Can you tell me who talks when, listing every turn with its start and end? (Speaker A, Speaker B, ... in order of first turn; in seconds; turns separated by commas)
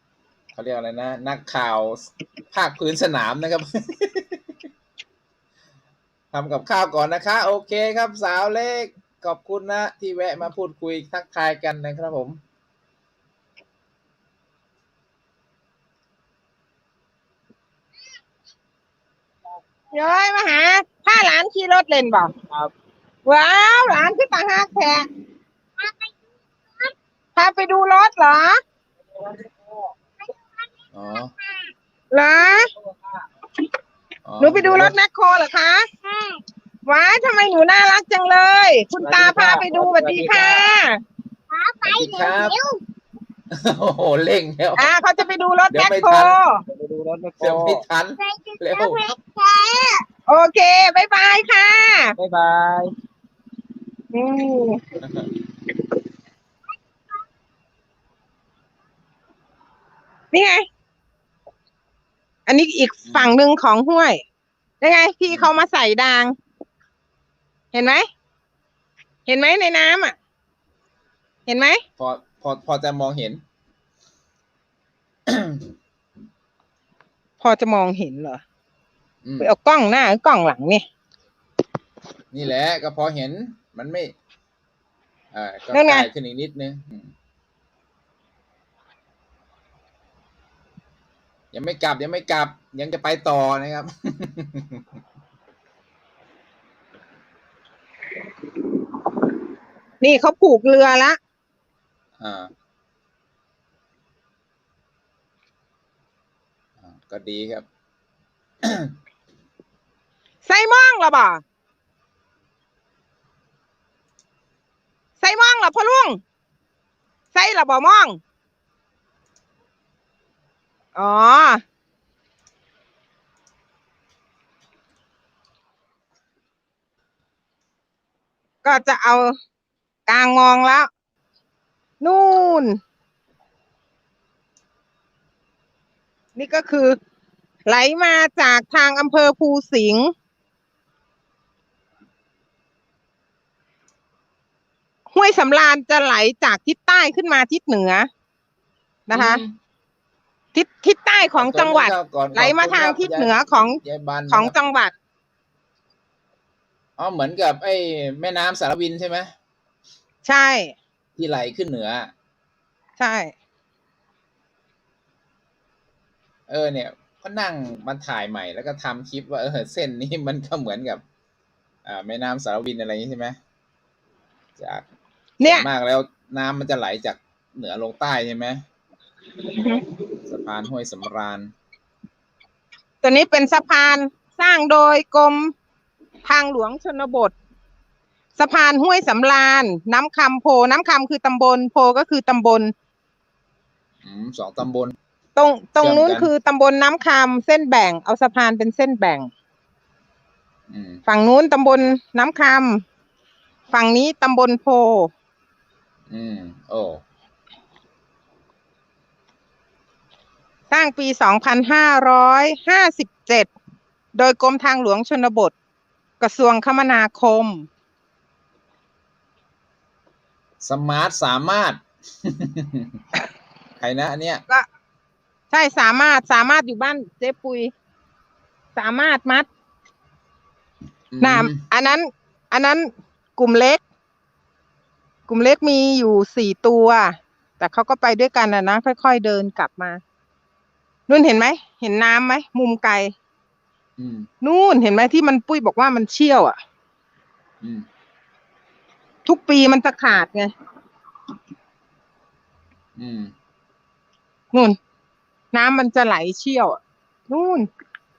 Speaker A: 0.5-4.4, Speaker A: 6.3-12.4, Speaker B: 19.9-22.3, Speaker B: 23.2-25.1, Speaker B: 27.4-28.6, Speaker A: 30.9-31.3, Speaker B: 32.1-32.7, Speaker A: 34.3-34.9, Speaker B: 34.4-42.8, Speaker C: 39.0-40.8, Speaker A: 41.8-42.5, Speaker A: 43.5-44.9, Speaker B: 44.8-46.6, Speaker A: 45.7-46.4, Speaker C: 46.7-47.8, Speaker A: 47.4-49.1, Speaker B: 48.2-52.1, Speaker C: 52.1-52.9, Speaker B: 54.1-54.8, Speaker B: 60.3-60.6, Speaker B: 62.5-64.2, Speaker A: 63.0-63.4, Speaker B: 64.8-66.3, Speaker B: 67.7-68.0, Speaker B: 69.3-70.2, Speaker B: 71.5-71.8, Speaker A: 72.0-73.4, Speaker A: 75.3-75.6, Speaker B: 77.4-78.4, Speaker A: 79.2-79.5, Speaker B: 79.4-80.8, Speaker A: 82.3-84.1, Speaker A: 85.3-87.1, Speaker B: 85.7-86.1, Speaker A: 91.5-94.8, Speaker B: 100.0-101.2, Speaker A: 102.2-102.5, Speaker A: 106.8-107.7, Speaker A: 108.6-108.9, Speaker B: 110.4-111.4, Speaker B: 115.2-116.2, Speaker B: 117.3-118.2, Speaker B: 120.9-121.6, Speaker B: 128.6-129.3, Speaker B: 130.1-130.9, Speaker B: 132.0-132.8, Speaker B: 136.4-137.0, Speaker B: 137.7-140.1, Speaker B: 145.1-148.1, Speaker B: 149.1-149.4, Speaker A: 149.1-149.6, Speaker B: 150.5-154.9, Speaker A: 151.4-154.5, Speaker A: 157.0-159.3, Speaker B: 160.2-160.8, Speaker A: 161.2-162.1, Speaker B: 163.0-163.3, Speaker A: 166.5-171.0, Speaker A: 171.8-173.4, Speaker A: 174.6-174.8, Speaker B: 175.4-175.7, Speaker A: 175.4-178.6, Speaker B: 179.5-179.9, Speaker A: 180.3-181.5, Speaker B: 183.0-185.5, Speaker B: 186.2-187.3, Speaker B: 188.4-192.7, Speaker A: 194.0-194.9, Speaker B: 195.4-199.3, Speaker A: 195.8-196.3, Speaker A: 200.7-201.0, Speaker B: 201.1-202.8, Speaker B: 203.7-205.1, Speaker A: 206.1-207.0, Speaker B: 210.7-213.5, Speaker B: 214.2-215.5, Speaker B: 216.2-217.7, Speaker A: 220.6-222.9, Speaker A: 223.8-224.4, Speaker B: 225.5-227.7, Speaker B: 228.8-229.5, Speaker A: 231.1-231.6, Speaker B: 231.2-233.8, Speaker B: 235.3-240.0, Speaker B: 241.1-243.1, Speaker A: 244.0-244.3, Speaker B: 244.4-246.6, Speaker B: 249.3-250.5, Speaker A: 253.0-253.3, Speaker B: 254.5-254.8, Speaker B: 255.5-257.7